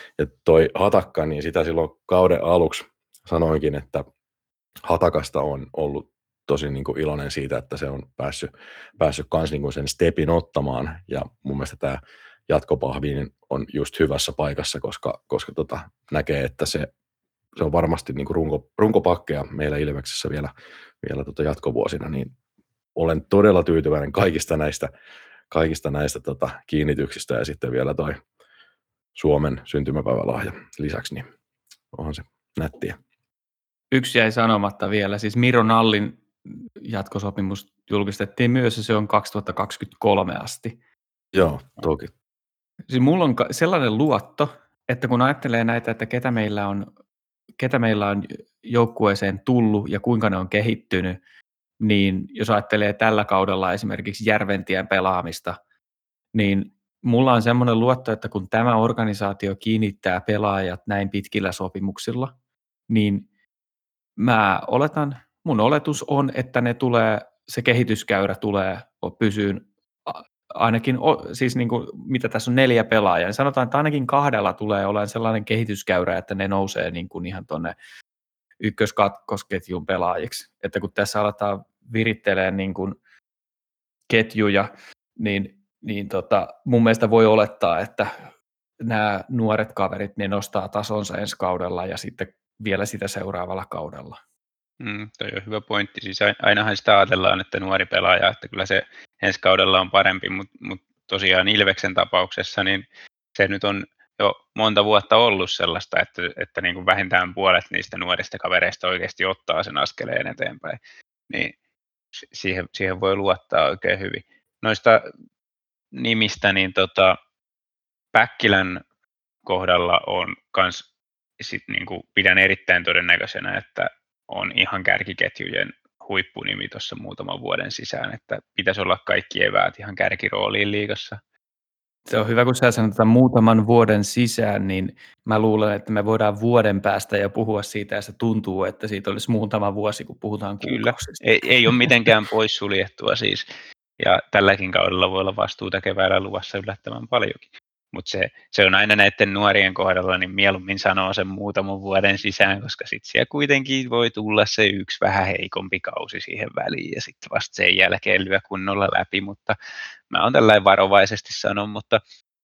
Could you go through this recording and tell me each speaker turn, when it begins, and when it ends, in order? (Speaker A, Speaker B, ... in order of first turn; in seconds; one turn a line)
Speaker A: 0.2-4.0
Speaker A: 4.8-16.9
Speaker A: 17.6-22.3
Speaker A: 22.9-24.9
Speaker A: 25.5-28.2
Speaker A: 29.1-31.2
Speaker A: 31.9-33.0
Speaker B: 33.9-40.8
Speaker A: 41.3-42.1
Speaker B: 42.9-46.9
Speaker B: 47.6-51.2
Speaker B: 51.8-55.6
Speaker B: 56.3-62.3
Speaker B: 62.9-63.3
Speaker B: 64.2-77.8
Speaker B: 78.6-83.0
Speaker B: 84.1-88.2
Speaker B: 88.8-94.2
Speaker C: 94.8-111.5
Speaker C: 112.2-115.1
Speaker C: 115.9-117.2
Speaker C: 118.1-118.8
Speaker C: 119.5-120.9
Speaker C: 121.4-131.2
Speaker B: 132.1-142.1
Speaker C: 140.6-143.5
Speaker C: 144.0-159.6
Speaker C: 160.1-162.0